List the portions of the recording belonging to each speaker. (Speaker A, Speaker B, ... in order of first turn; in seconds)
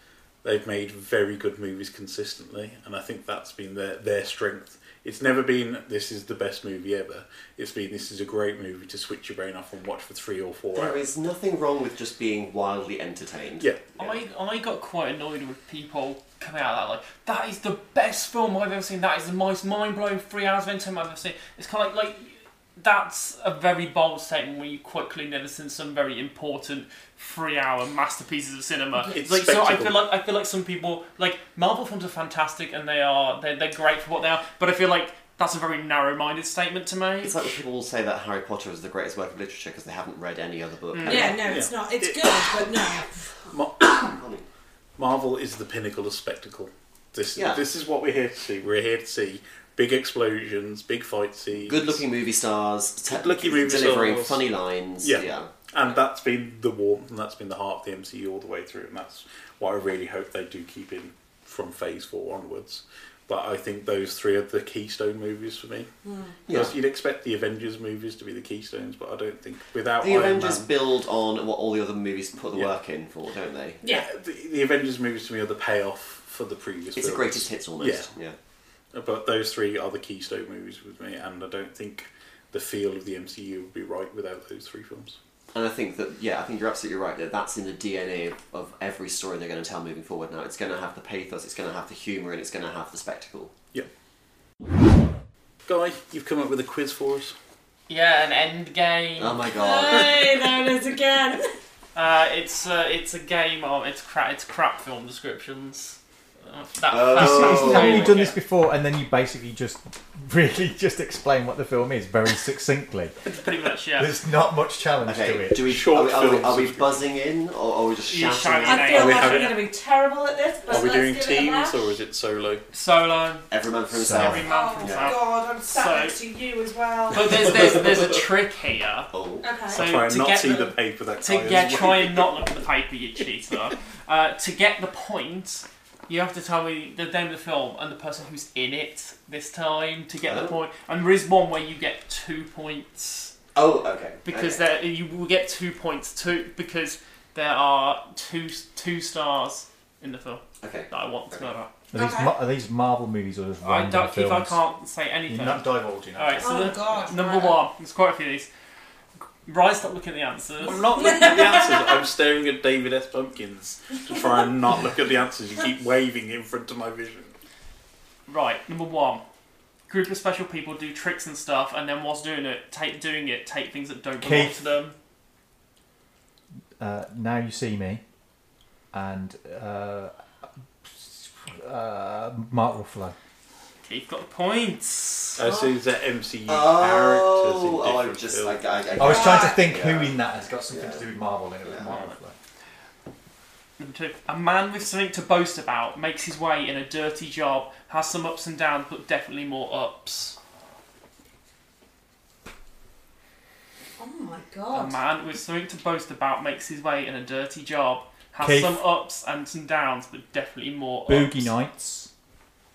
Speaker A: 0.4-11.0, 29.1-30.0, 41.4-42.9, 43.5-44.2, 45.0-52.0, 53.1-54.5, 55.0-65.9, 66.5-70.7, 73.9-78.1, 78.9-85.2, 95.7-97.3, 115.6-117.0, 118.9-119.6, 120.7-122.6, 129.7-132.3, 160.6-167.3, 185.4-188.6
Speaker B: 10.7-14.2, 37.2-41.5, 43.9-44.4, 47.3-47.6, 51.6-55.5, 66.5-66.7, 70.0-73.8, 77.0-78.3, 85.5-93.5, 99.2-100.3, 106.9-108.2, 115.0-119.3, 123.5-125.2, 129.1-129.5, 140.2-140.6, 143.5-144.7, 150.6-151.5, 186.4-191.1, 191.6-192.0
Speaker C: 14.0-37.3, 40.9-41.4, 97.9-99.4, 101.9-108.4, 113.2-114.1, 118.1-119.6, 122.7-123.5, 124.1-126.2, 127.1-129.1, 129.7-143.3, 144.2-151.7, 153.6-158.5, 159.4-160.8, 168.3-169.2, 169.9-174.9, 183.8-185.4, 193.8-200.4, 204.7-211.5
Speaker D: 41.0-43.1, 66.0-66.3, 99.5-101.5, 118.6-121.8, 124.4-127.8, 129.4-129.8, 151.9-152.3, 156.4-157.6, 160.9-161.9, 189.0-189.6, 204.0-205.0
Speaker E: 107.1-113.1, 113.9-115.7, 123.9-124.5, 151.9-154.6, 155.3-156.8, 174.2-174.6, 176.8-178.0, 178.9-180.1, 180.8-183.1, 189.0-192.3, 208.4-208.8, 211.1-212.1